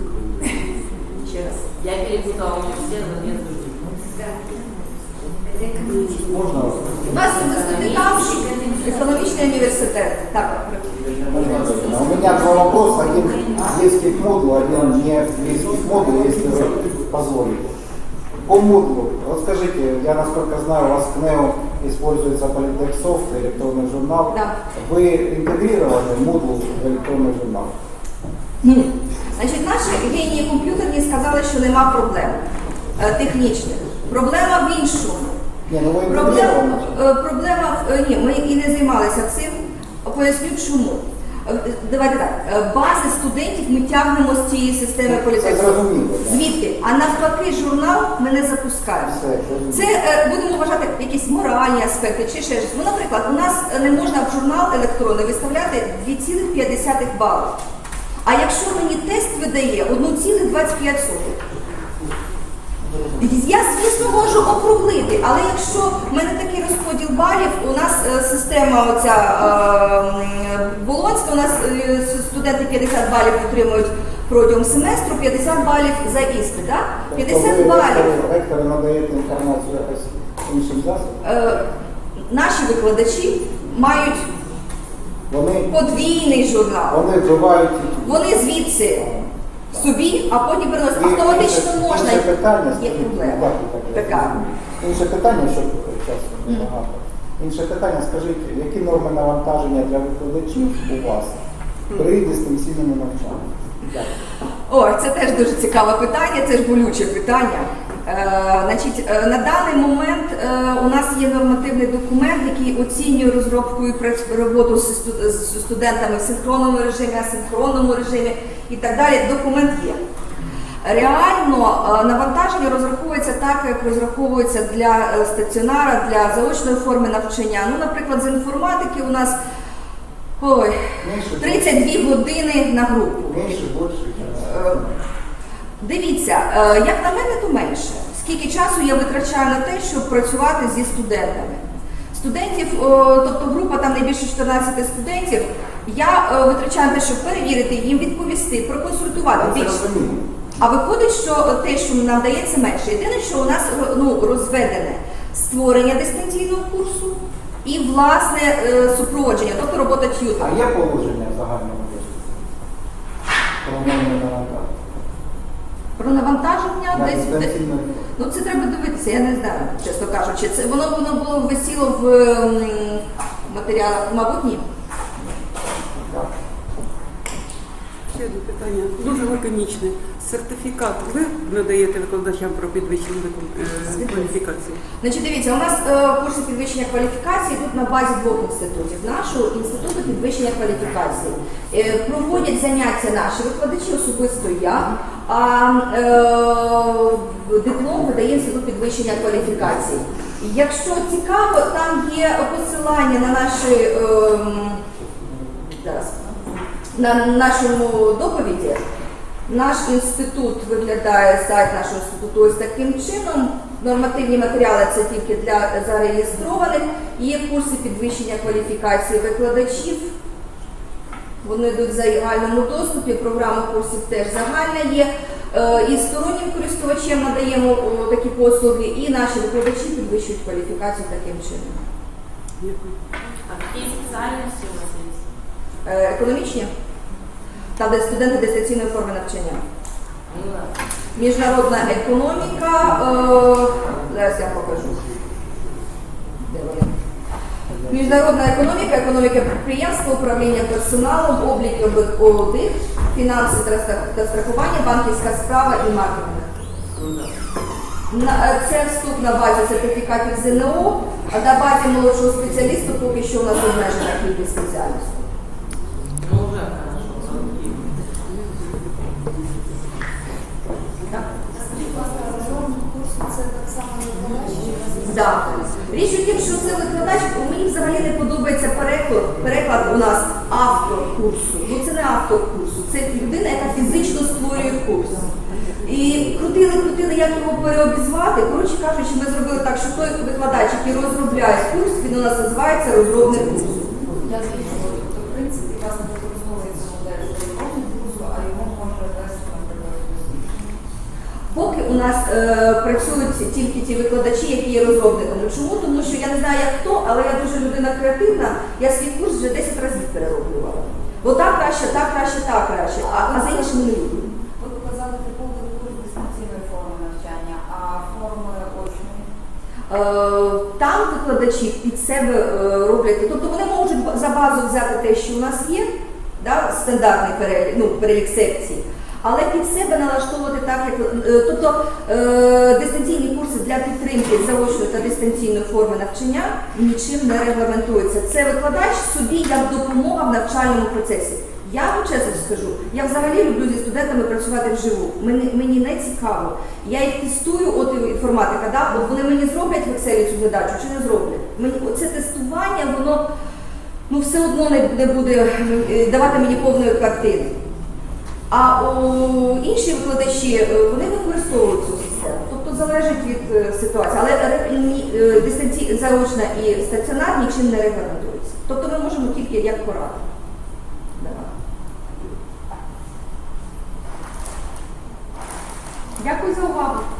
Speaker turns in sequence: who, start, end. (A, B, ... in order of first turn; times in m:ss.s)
0:01.3-0:01.6 A
0:01.8-0:03.9 B
0:04.1-0:04.8 C
0:05.4-0:06.6 C
0:06.3-0:07.4 D
0:07.1-0:10.8 A
0:07.2-0:09.6 B
0:11.3-0:17.7 D
0:11.5-0:12.5 B
0:18.4-0:27.7 D
0:28.6-0:32.4 A
0:33.0-0:35.4 A
0:35.7-0:36.9 D
0:36.1-0:49.2 A
0:45.1-0:46.4 D
0:49.0-0:49.9 D
0:49.7-0:57.6 A
0:58.2-1:01.4 A
1:03.2-1:18.1 A
1:17.1-1:21.2 D
1:21.2-1:21.7 A
1:22.3-1:24.3 A
1:25.3-1:25.7 D
1:25.7-1:27.0 A
1:26.9-1:28.4 D
1:28.0-1:29.1 A
1:29.0-1:29.9 D
1:29.7-1:34.4 A
1:30.9-1:41.4 D
1:41.9-1:44.1 D
1:44.7-2:00.0 A
2:00.8-2:09.4 A
2:10.4-2:13.5 A
2:11.0-2:12.0 D
2:13.3-2:15.0 D
2:14.3-2:14.8 A
2:15.8-2:29.8 A
2:29.3-2:30.3 D
2:30.6-2:40.6 A
2:40.4-2:42.5 D
2:43.6-2:44.7 D
2:46.0-2:47.6 A
2:46.9-2:48.0 D
2:48.2-2:54.6 A
2:56.0-2:56.3 D
2:58.1-3:04.8 E
3:03.9-3:04.3 A
3:05.0-3:24.8 A
3:25.8-3:26.2 A
3:27.0-3:28.8 A
3:29.5-3:40.1 A
3:41.4-3:51.8 A
3:52.6-3:52.9 E
3:53.5-3:55.2 B
3:55.8-3:56.7 A
3:57.8-3:59.6 A
4:00.3-4:00.7 B
4:01.2-4:05.0 A
4:06.4-4:06.9 A
4:07.9-4:16.5 A
4:16.9-4:17.3 B
4:18.1-4:25.2 A
4:26.2-4:27.9 B
4:31.1-4:35.9 C
4:35.0-4:45.2 A
4:45.8-4:53.8 A
4:54.2-5:00.7 C
5:01.5-5:14.3 A
5:13.0-5:13.8 C
5:14.6-5:19.3 C
5:19.9-5:53.2 A
5:54.1-5:57.5 A
5:58.5-6:10.2 A
6:11.2-6:11.5 A
6:16.2-6:17.1 A